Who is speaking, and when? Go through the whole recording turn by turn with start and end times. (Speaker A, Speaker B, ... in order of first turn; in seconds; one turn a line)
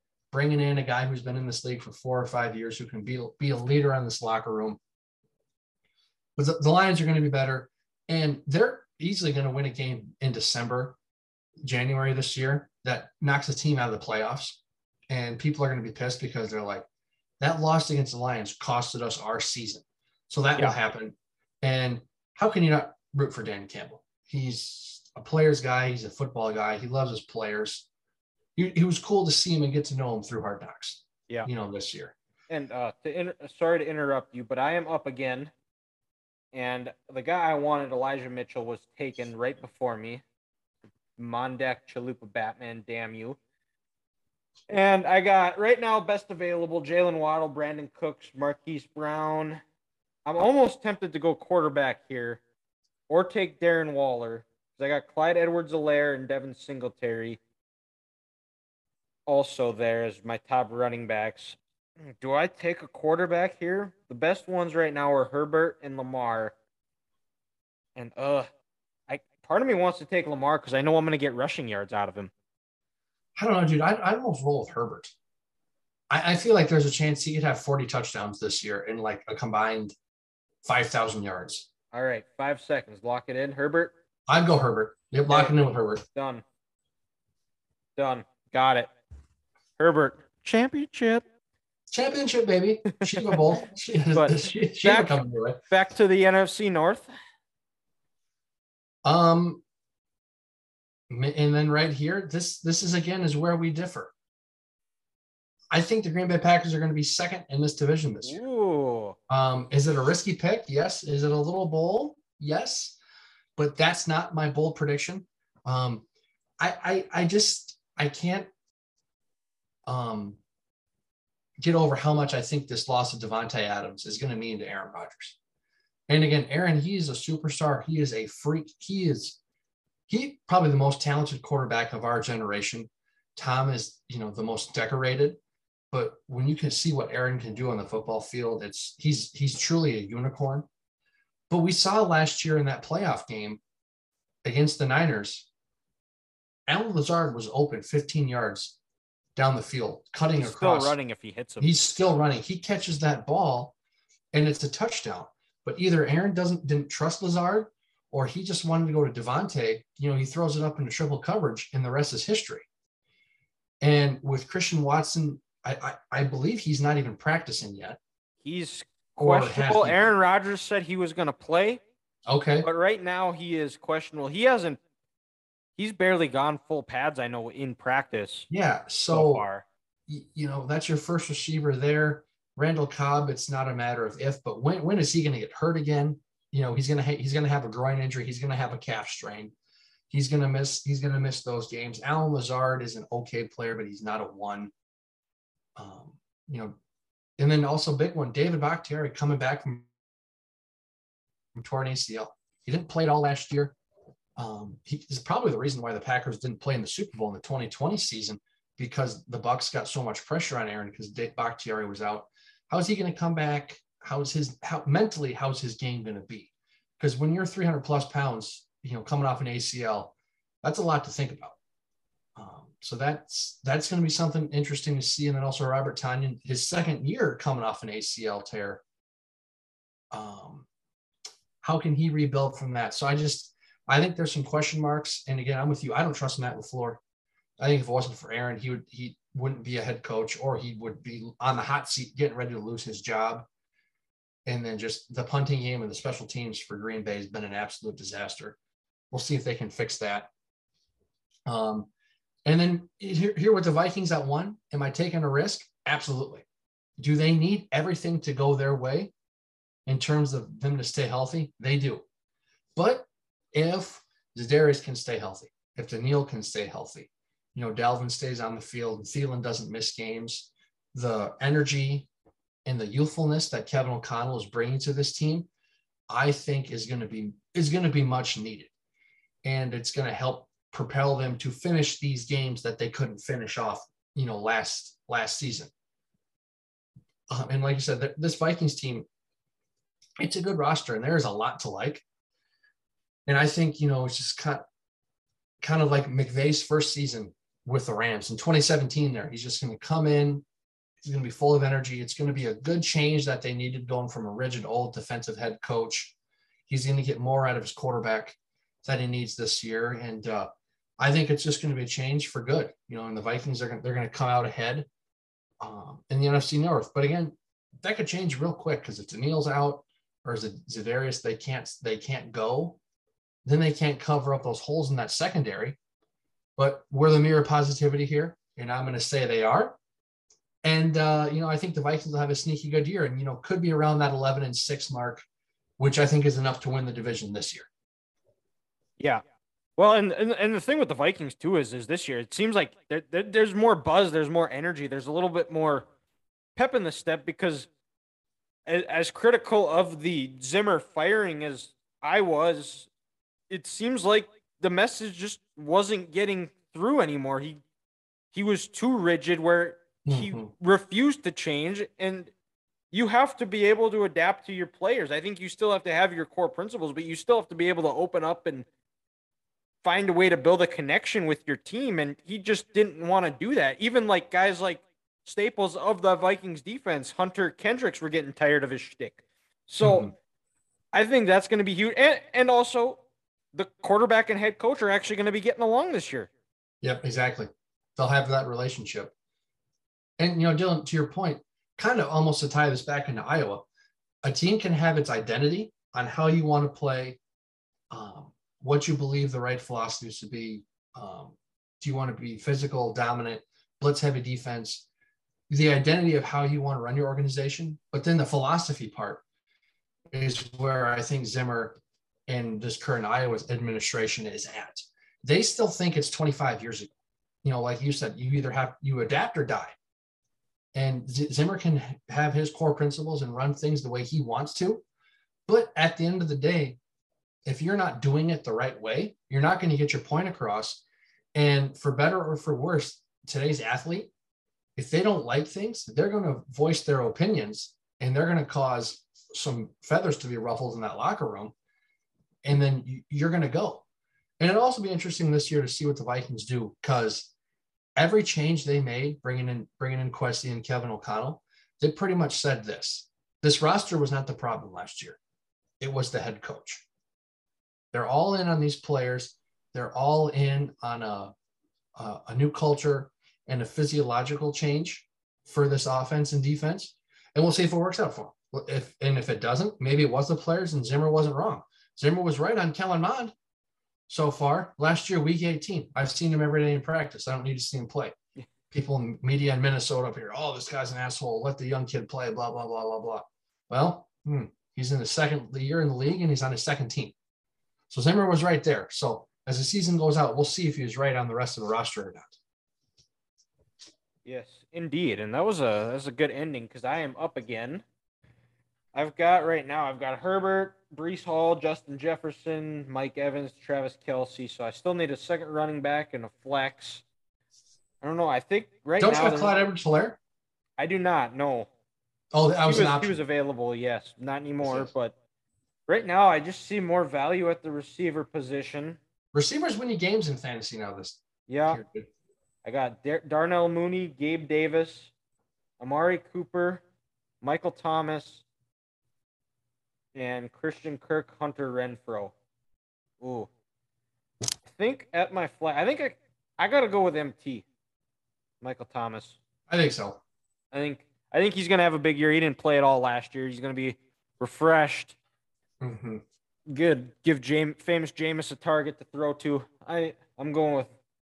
Speaker A: 0.3-4.8
Speaker A: 6.4-11.0
Speaker A: 11.6-16.9
Speaker A: 17.4-27.9
Speaker A: 28.6-32.1
Speaker B: 32.5-35.5
Speaker B: 36.5-40.2
Speaker B: 41.2-43.4
Speaker B: 44.7-49.6
Speaker B: 50.3-52.4
Speaker B: 53.1-57.4
Speaker B: 59.3-61.6
Speaker B: 62.1-66.5
Speaker B: 68.0-68.5
Speaker B: 69.1-72.3
Speaker A: 73.4-75.2
Speaker A: 76.1-80.0
Speaker A: 80.6-81.7
Speaker B: 81.9-83.9
Speaker A: 84.3-86.0
Speaker B: 85.3-85.6
Speaker B: 86.1-86.4
Speaker B: 88.0-88.9
Speaker B: 89.8-91.2
Speaker A: 91.9-95.6
Speaker B: 92.9-93.4
Speaker B: 94.2-95.2
Speaker B: 95.7-97.1
Speaker A: 99.0-99.6
Speaker A: 101.1-104.1
Speaker A: 105.7-108.4
Speaker B: 108.2-109.2
Speaker A: 109.3-113.0
Speaker A: 113.6-116.0
Speaker A: 116.6-118.5
Speaker A: 119.9-120.4
Speaker A: 121.6-125.4
Speaker A: 126.1-129.4
Speaker A: 130.1-135.4
Speaker A: 135.9-140.7
Speaker A: 141.5-143.6
Speaker A: 144.4-145.5
Speaker A: 146.7-148.8
Speaker A: 149.4-151.0
Speaker B: 150.4-151.7
Speaker A: 151.6-153.8
Speaker A: 154.3-162.7
Speaker A: 163.8-168.0
Speaker B: 168.4-171.8
Speaker A: 169.2-170.1
Speaker A: 172.3-172.7
Speaker B: 172.6-174.8
Speaker B: 175.8-178.5
Speaker A: 178.5-179.5
Speaker B: 179.1-179.7
Speaker A: 180.1-189.5
Speaker A: 190.1-194.7
Speaker A: 195.8-196.8
Speaker A: 197.4-199.9
Speaker A: 201.6-203.8
Speaker A: 204.4-221.6
Speaker A: 222.4-228.8
Speaker A: 230.1-230.7
Speaker A: 231.6-237.0
Speaker A: 237.6-243.5
Speaker A: 244.5-248.6
Speaker A: 249.1-250.3
Speaker A: 251.5-251.9
Speaker A: 252.5-256.4
Speaker A: 257.0-259.1
Speaker A: 259.9-262.0
Speaker A: 262.8-272.1
Speaker A: 272.7-275.5
Speaker A: 276.1-278.7
Speaker A: 279.4-285.7
Speaker A: 287.3-289.1
Speaker A: 290.2-292.0
Speaker A: 293.3-294.6
Speaker A: 295.6-300.4
Speaker A: 301.0-306.1
Speaker A: 306.7-310.5
Speaker A: 311.0-314.9
Speaker A: 315.6-322.8
Speaker A: 323.4-325.8
Speaker A: 326.6-329.8
Speaker A: 330.6-335.2
Speaker A: 335.8-337.7
Speaker B: 339.8-345.9
Speaker B: 346.6-347.7
Speaker B: 348.7-352.9
Speaker B: 353.5-357.6
Speaker B: 358.3-362.3
Speaker A: 360.1-360.5
Speaker B: 362.9-368.7
Speaker B: 369.8-380.1
Speaker A: 379.8-380.1
Speaker B: 380.9-383.0
Speaker B: 383.5-386.3
Speaker A: 386.8-389.1
Speaker A: 390.2-393.6
Speaker A: 394.2-397.2
Speaker A: 397.9-404.9
Speaker A: 405.5-409.2
Speaker A: 410.1-416.9
Speaker A: 417.4-419.7
Speaker A: 420.7-424.8
Speaker A: 425.5-426.8
Speaker A: 427.4-430.8
Speaker A: 431.4-434.1
Speaker A: 434.8-441.5
Speaker A: 442.4-443.8
Speaker A: 444.4-447.3
Speaker A: 448.0-455.2
Speaker A: 455.8-456.9
Speaker A: 457.9-461.3
Speaker A: 462.0-473.4
Speaker A: 474.1-478.1
Speaker A: 478.7-487.1
Speaker A: 487.9-492.4
Speaker B: 494.2-497.8
Speaker B: 498.9-507.0
Speaker B: 508.0-509.5
Speaker A: 509.0-510.2
Speaker B: 510.8-511.7
Speaker A: 512.3-513.2
Speaker B: 512.6-515.1
Speaker A: 514.6-514.9
Speaker B: 515.9-519.0
Speaker A: 519.3-522.1
Speaker B: 521.5-521.8
Speaker B: 522.6-525.1
Speaker B: 525.8-526.8
Speaker B: 527.4-528.4
Speaker B: 530.1-532.3
Speaker B: 533.2-533.5
Speaker B: 534.8-537.6
Speaker B: 538.6-539.4
Speaker A: 539.7-540.2
Speaker B: 540.7-545.2
Speaker A: 545.8-546.2
Speaker B: 546.7-550.9